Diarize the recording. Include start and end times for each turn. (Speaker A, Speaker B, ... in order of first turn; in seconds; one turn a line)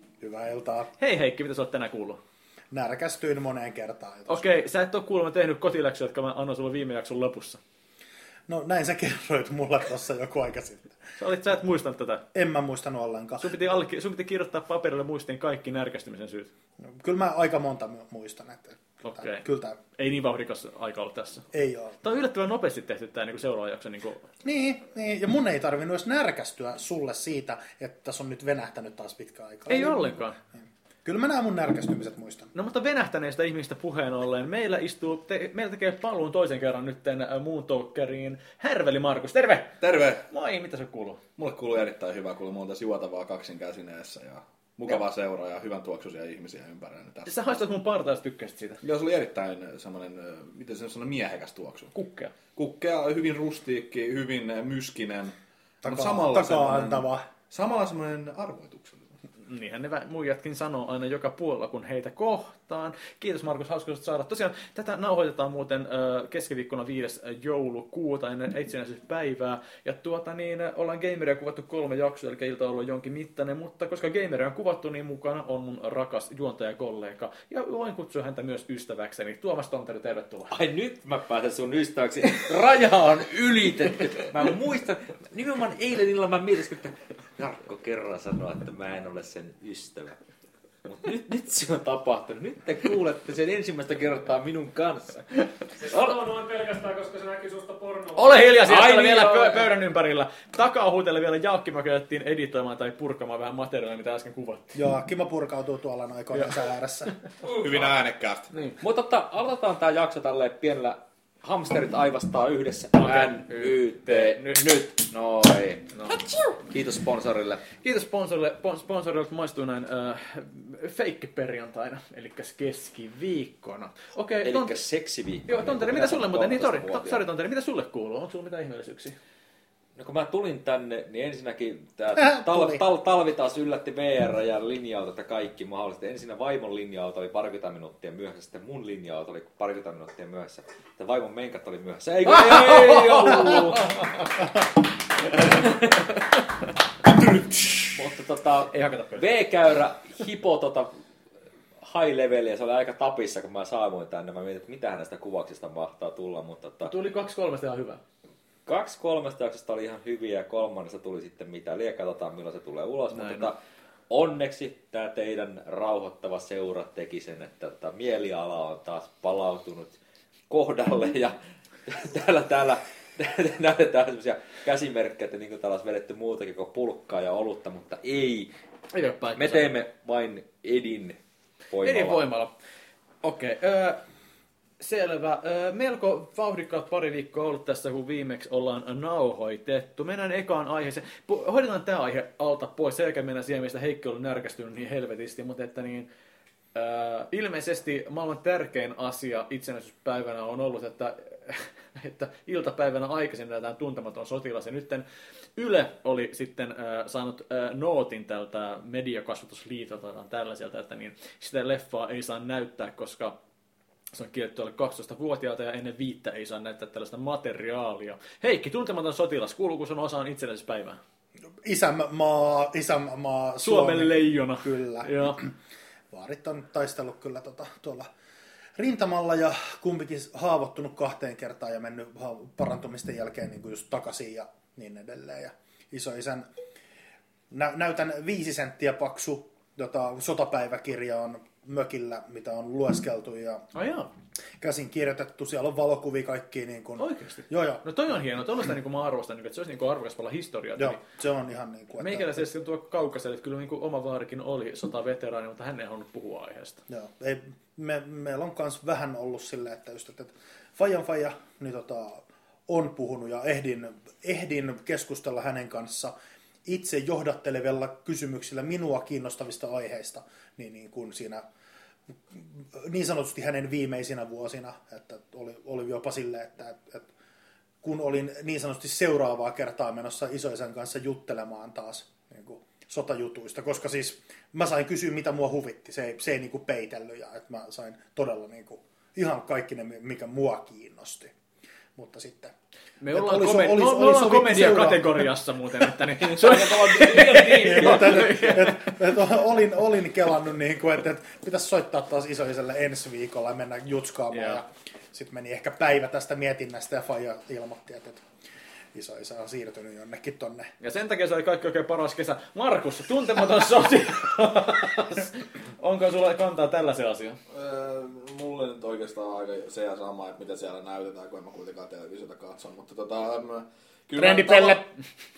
Speaker A: 0.2-0.9
Speaker B: 1.0-2.2
Speaker A: 2.7-4.4
Speaker B: 4.3-7.6
Speaker A: 8.5-11.0
Speaker B: 11.2-12.2
Speaker A: 12.3-13.5
Speaker B: 13.4-16.5
Speaker A: 16.8-19.8
Speaker B: 19.0-19.4
Speaker B: 19.9-21.4
Speaker A: 21.5-22.0
Speaker B: 22.0-24.3
Speaker A: 24.4-30.2
Speaker B: 29.7-30.4
Speaker A: 31.0-32.5
Speaker B: 32.5-41.2
Speaker C: 39.8-40.2
Speaker C: 41.4-47.5
Speaker B: 47.2-48.8
Speaker C: 48.8-51.9
Speaker B: 51.9-52.3
Speaker C: 52.5-59.1
Speaker A: 55.8-57.2
Speaker B: 59.4-80.5
Speaker D: 80.5-90.2
Speaker D: 90.8-95.3
Speaker E: 95.8-98.9
Speaker D: 95.8-96.2
Speaker B: 98.1-104.8
Speaker D: 98.6-99.6
Speaker A: 104.7-107.1
Speaker C: 107.4-108.5
Speaker B: 108.5-108.8
Speaker D: 108.8-117.6
Speaker B: 113.0-114.7
Speaker B: 115.9-116.2
Speaker B: 117.8-124.7
Speaker D: 124.4-127.2
Speaker B: 125.5-129.2
Speaker D: 129.9-144.1
Speaker A: 132.2-132.8
Speaker B: 142.3-144.2
Speaker B: 145.4-146.2
Speaker B: 147.1-148.0
Speaker D: 147.9-150.9
Speaker B: 148.7-149.2
Speaker D: 151.8-156.9
Speaker B: 156.8-158.0
Speaker D: 158.7-163.6
Speaker B: 163.1-163.5
Speaker D: 164.1-169.9
Speaker D: 170.5-178.5
Speaker B: 178.9-179.7
Speaker D: 179.4-181.2
Speaker D: 181.7-182.2
Speaker B: 181.8-182.5
Speaker B: 183.2-184.0
Speaker B: 184.8-196.1
Speaker B: 196.7-205.0
Speaker B: 205.6-213.3
Speaker B: 214.1-221.0
Speaker A: 221.6-225.5
Speaker B: 223.6-225.4
Speaker A: 226.1-228.1
Speaker A: 228.8-236.5
Speaker A: 237.5-243.6
Speaker B: 243.7-244.1
Speaker A: 244.6-248.1
Speaker B: 247.0-251.0
Speaker A: 250.8-252.4
Speaker B: 252.0-256.8
Speaker A: 256.9-266.1
Speaker A: 266.6-271.4
Speaker A: 272.3-277.1
Speaker A: 277.8-291.3
Speaker A: 291.9-292.5
Speaker B: 293.0-299.1
Speaker A: 293.1-295.3
Speaker D: 296.3-298.5
Speaker A: 297.5-308.2
Speaker B: 304.3-304.6
Speaker A: 308.9-310.7
Speaker B: 310.8-317.4
Speaker C: 317.5-324.9
Speaker A: 324.2-324.8
Speaker B: 324.3-324.8